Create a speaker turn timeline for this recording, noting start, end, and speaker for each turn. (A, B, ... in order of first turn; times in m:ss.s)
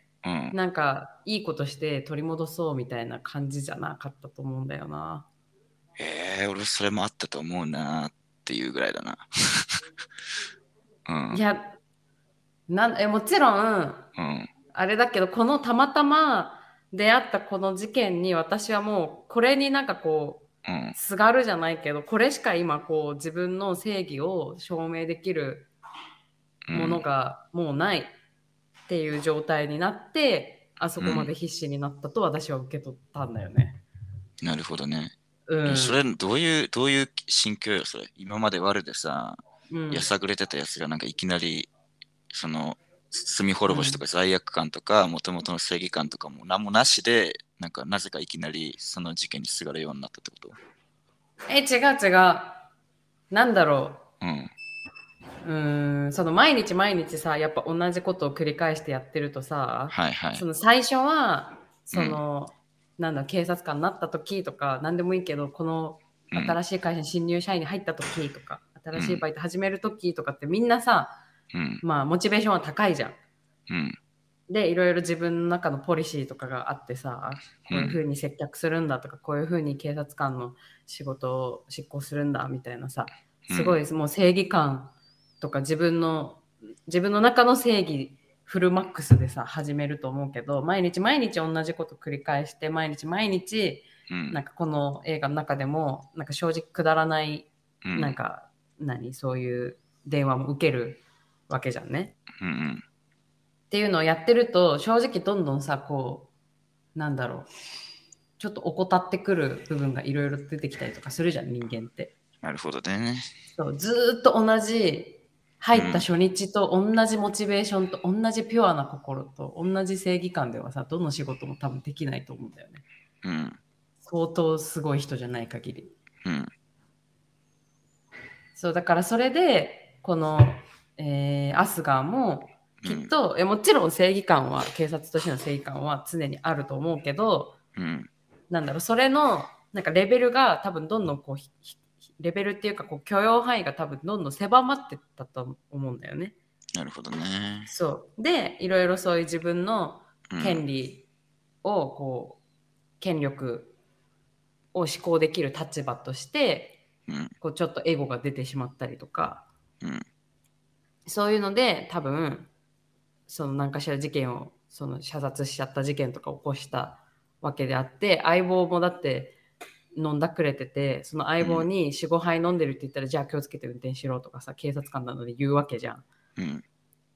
0:00.2-0:00.5 A
0:00.5-0:05.2 B
0:06.0-0:09.8 A
0:11.0-0:11.4 A
0:11.3-0:11.8 B
0:12.7-0:14.1 B
0:14.2-0:14.5 A
0:14.7-0:25.7 B
0:20.6-0:21.0 A
0:26.7-0:27.0 A
0:26.7-0:28.1 B
0:28.9-0:33.8 B
0:31.0-0:31.3 A
0:34.4-0:35.1 A
0:35.5-0:36.0 B
0:35.6-0:39.4 A
0:39.7-0:40.1 B
0:39.9-0:41.7 A
0:42.3-0:50.6 A
0:43.7-0:44.0 B
0:51.5-0:52.6 B
0:53.3-0:54.0 B
0:54.2-0:54.5 A
0:55.4-1:11.2 B
0:59.9-1:00.4 A
1:01.9-1:02.2 A
1:06.3-1:06.6 A
1:08.9-1:09.2 A
1:11.5-1:11.8 A
1:11.8-1:13.2 B
1:13.7-1:14.0 A
1:14.5-1:42.1 B
1:17.7-1:18.0 A
1:23.4-1:23.8 A
1:34.1-1:34.4 A
1:37.8-1:38.2 A
1:42.4-1:42.8 A
1:43.7-1:46.3 B
1:46.9-1:47.5 B
1:48.4-1:52.1 B
1:52.4-1:53.3 A
1:53.5-2:02.8 B
1:55.7-1:56.1 A
2:03.2-2:03.6 A
2:04.0-2:05.9 B
2:06.2-2:06.5 A
2:08.5-2:17.6 B
2:12.8-2:13.1 A
2:17.8-2:18.1 A
2:18.5-2:26.3 B
2:26.7-2:27.7 A
2:27.6-2:31.0 B
2:30.3-2:30.6 A
2:31.6-2:32.4 B
2:33.0-2:33.7 B
2:34.7-2:36.8 B
2:37.1-2:37.3 A
2:37.4-2:39.5 B
2:41.0-2:42.5 B
2:43.3-2:49.4 B
2:49.9-2:56.0 B
2:51.4-2:51.7 A
2:56.4-2:56.6 A